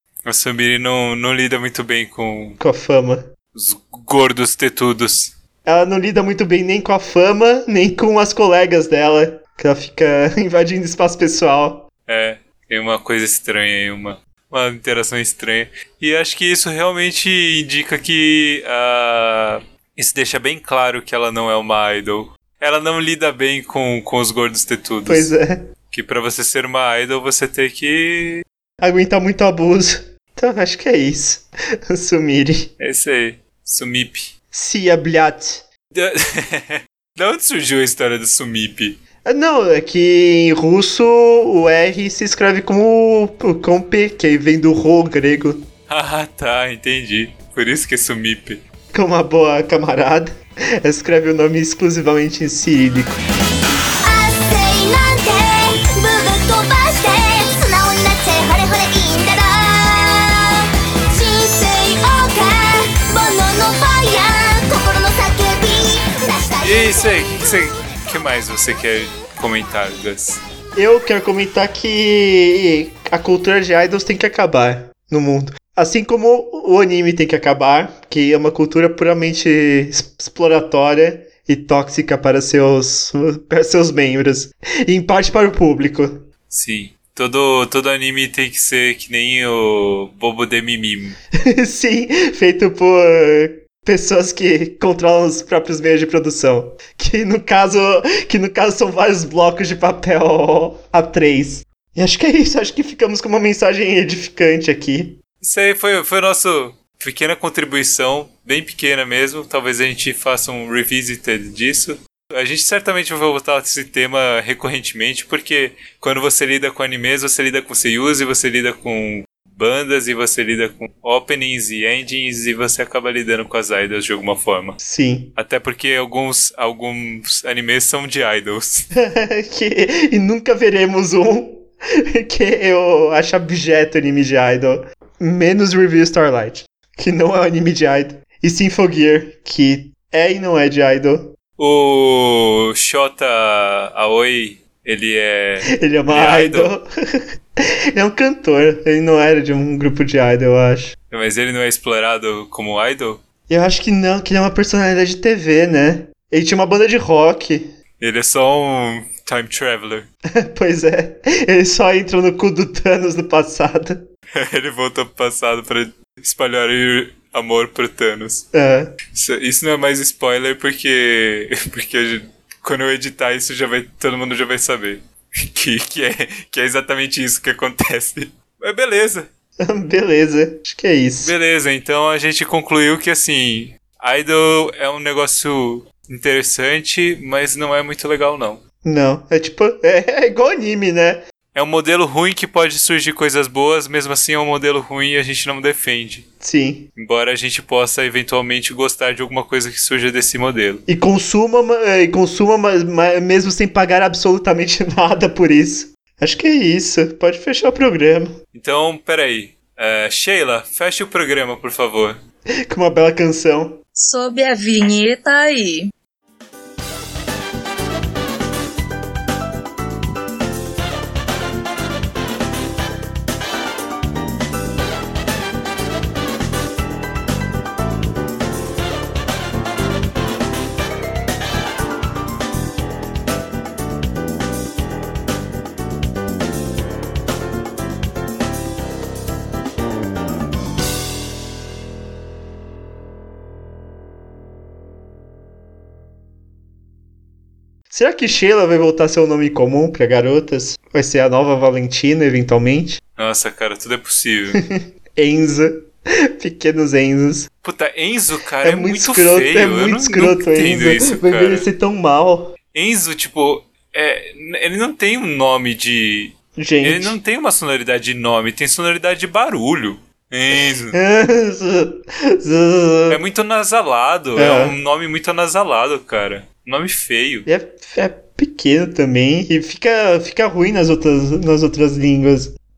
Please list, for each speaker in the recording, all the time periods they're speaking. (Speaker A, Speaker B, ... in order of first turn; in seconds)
Speaker A: 0.2-2.6, 3.5-5.3, 12.1-25.3, 25.9-28.4, 32.8-34.3, 35.9-39.0, 45.9-48.6, 66.6-70.4, 86.5-91.2, 105.4-124.8, 125.4-128.9, 141.6-146.8, 151.1-153.2, 158.0-160.1, 164.3-168.5, 169.1-179.3, 181.2-188.6, 191.6-196.3, 197.0-200.8, 208.5-212.2, 253.2-254.6, 257.6-261.7, 262.7-271.0, 273.1-277.5
Speaker B: 2.6-3.3, 5.7-11.9, 25.1-25.7, 28.8-32.7, 34.5-35.6, 39.2-45.7, 48.9-53.2, 70.8-86.2, 91.5-105.2, 124.8-125.3, 128.9-141.3, 145.8-146.9, 147.9-150.9, 153.5-157.7, 160.4-164.1, 168.5-168.9, 179.6-181.3, 188.8-191.2, 196.4-196.9, 200.9-208.4, 212.7-213.8, 247.9-253.0, 254.5-257.5, 258.6-262.6, 266.6-267.2, 270.9-273.2, 274.4-274.8, 277.5-282.5
Speaker C: 54.0-67.2
Speaker D: 214.0-215.9